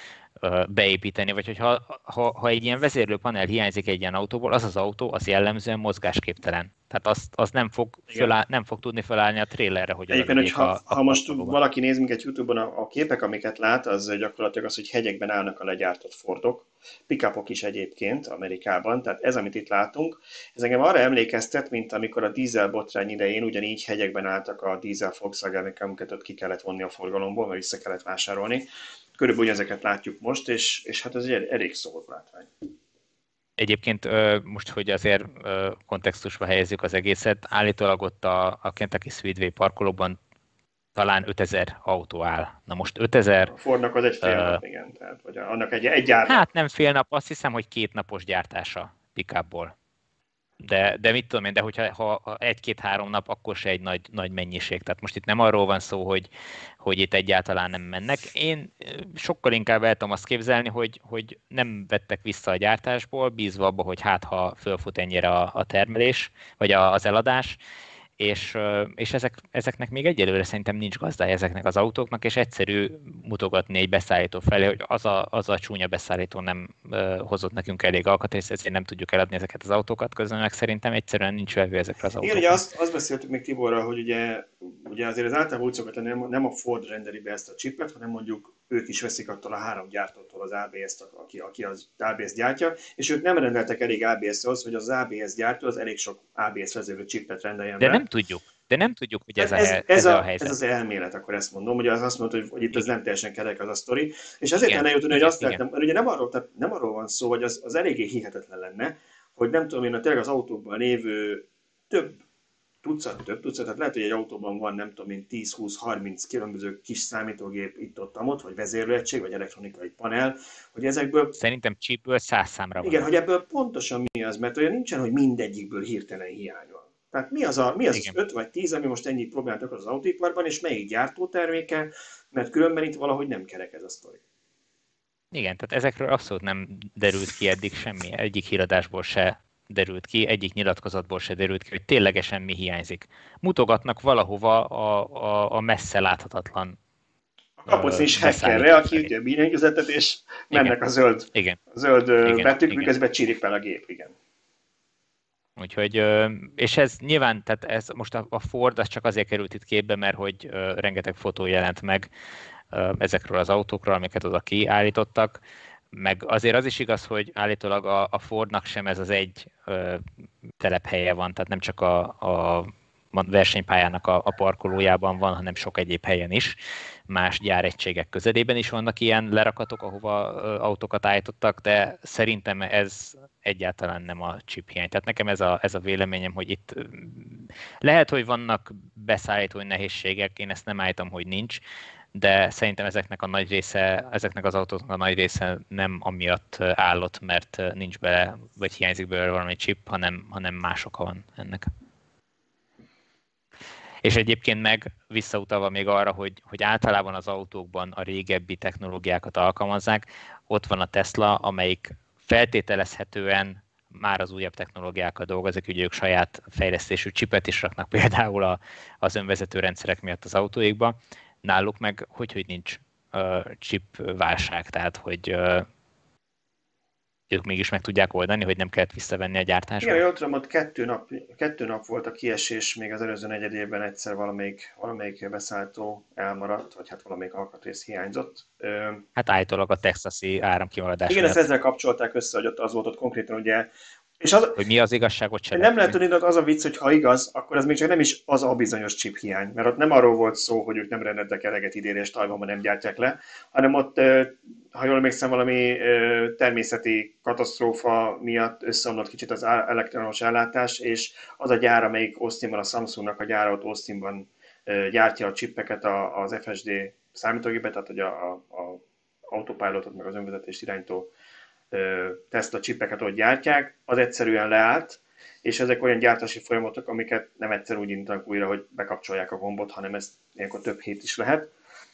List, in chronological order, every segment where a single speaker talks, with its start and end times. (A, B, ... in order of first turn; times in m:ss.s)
0:00.4-0:11.6 A
0:10.1-0:32.5 B
0:33.6-0:40.2 A
0:41.0-0:43.5 A
0:43.5-0:46.4 B
0:44.2-0:44.6 A
0:46.3-0:49.7 A
0:50.6-0:56.3 A
0:56.8-1:07.6 A
1:08.2-1:22.6 A
1:22.2-1:38.0 B
1:37.8-1:40.6 A
1:39.4-1:52.2 B
1:44.6-1:45.6 A
1:52.8-2:01.4 B
2:01.4-2:03.1 A
2:02.8-2:14.2 B
2:15.3-2:26.8 A
2:27.6-2:34.1 B
2:27.7-2:29.1 A
2:31.3-2:31.6 A
2:32.2-2:32.9 A
2:35.6-2:42.1 A
2:42.7-2:45.4 A
2:45.9-2:50.0 A
2:50.6-2:56.6 A
2:57.1-3:11.6 A
3:12.1-3:21.7 A
3:24.0-3:45.7 A
3:47.3-3:50.0 A
3:49.8-3:59.0 B
3:59.2-4:01.4 A
4:01.1-4:04.6 B
4:04.6-4:06.0 A
4:05.5-4:31.1 B
4:31.7-4:41.5 B